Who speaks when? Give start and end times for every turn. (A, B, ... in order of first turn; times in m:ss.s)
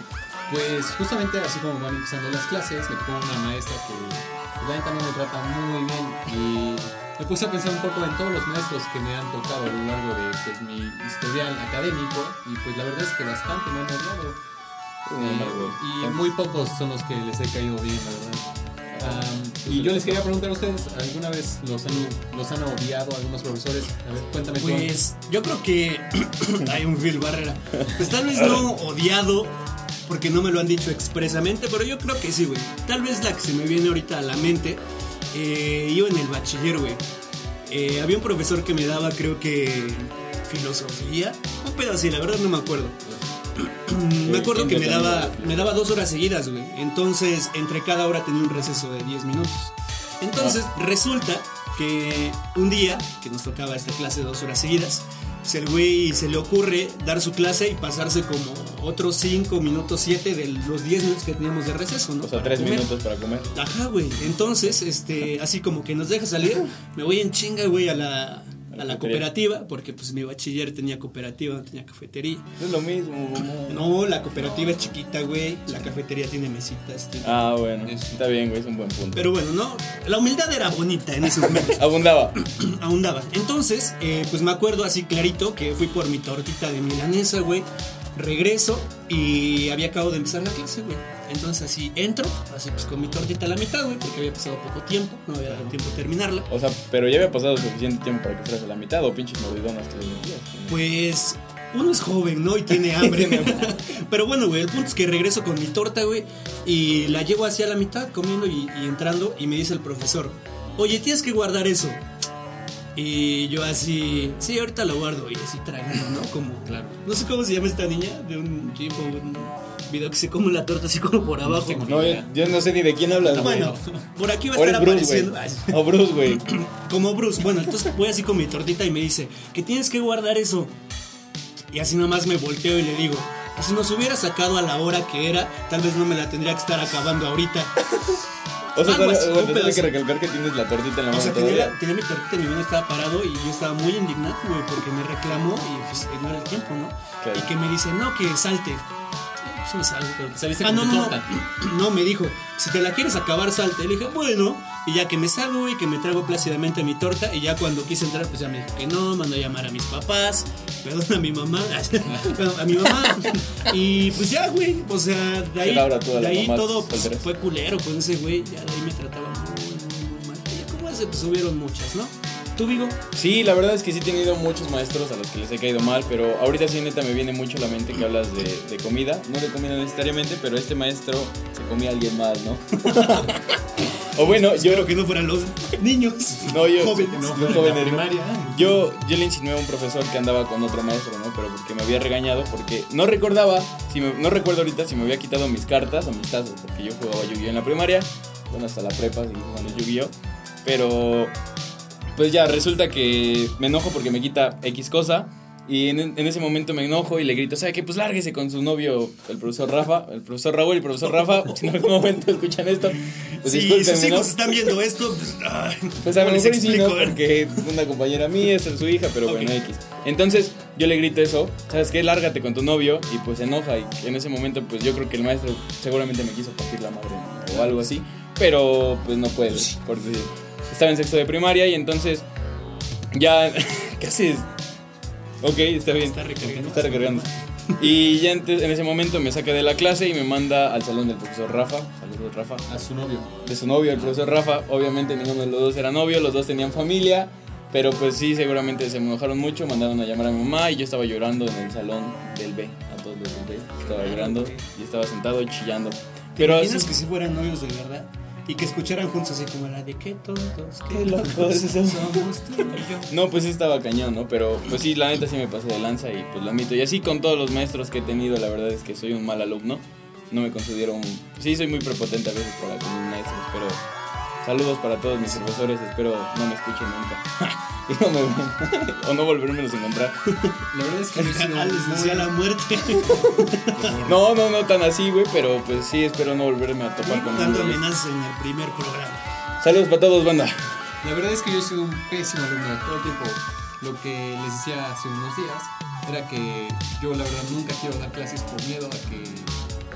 0:00.5-0:14.4 A
0:15.0-0:16.3 B
0:15.2-0:18.4 A
0:18.9-0:20.3 B
0:19.0-0:24.9 A
0:24.6-0:37.0 C
0:37.6-0:43.0 C
0:43.6-1:02.9 C
0:44.2-0:45.8 B
1:02.2-1:03.5 B
1:03.5-1:12.5 C
1:08.7-1:09.3 B
1:12.6-1:13.9 B
1:13.6-1:17.6 C
1:14.4-1:14.9 A
1:17.2-1:19.3 B
1:17.8-1:18.2 A
1:19.1-1:21.8 C
1:21.4-1:22.4 B
1:22.3-1:36.5 C
1:36.5-1:40.8 B
1:40.7-1:52.0 C
1:42.8-1:43.8 B
1:52.9-2:02.0 C
1:56.6-1:57.0 A
2:01.4-2:04.0 A
2:01.9-2:03.7 B
2:03.2-2:10.7 C
2:04.5-2:06.5 B
2:11.7-2:17.8 C
2:18.7-2:21.8 B
2:18.8-2:19.9 C
2:21.1-2:28.8 C
2:27.2-2:27.5 B
2:29.4-2:53.0 C
2:30.3-2:31.3 A
2:42.1-2:42.4 A
2:45.6-2:47.3 B
2:53.1-3:04.9 B
3:02.8-3:03.2 C
3:04.1-3:07.6 C
3:06.4-3:21.3 B
3:06.9-3:08.8 A
3:22.1-3:34.7 B
3:33.1-3:37.3 C
3:36.0-3:52.2 B
3:39.2-3:39.6 C
3:47.5-3:47.8 A
3:53.1-3:54.5 B
3:55.4-3:57.3 B
3:55.9-3:57.8 C
3:57.8-4:02.7 B
4:02.7-4:03.3 A
4:03.4-4:16.9 B
4:13.8-4:14.6 C
4:16.4-4:23.1 C
4:20.9-4:33.8 B
4:34.4-4:40.2 B
4:40.3-4:40.5 C
4:40.7-4:42.3 A
4:41.2-4:43.8 C
4:43.3-4:44.2 A
4:44.0-4:47.8 B
4:47.0-4:49.2 C
4:49.6-4:50.6 B
4:51.0-4:59.5 A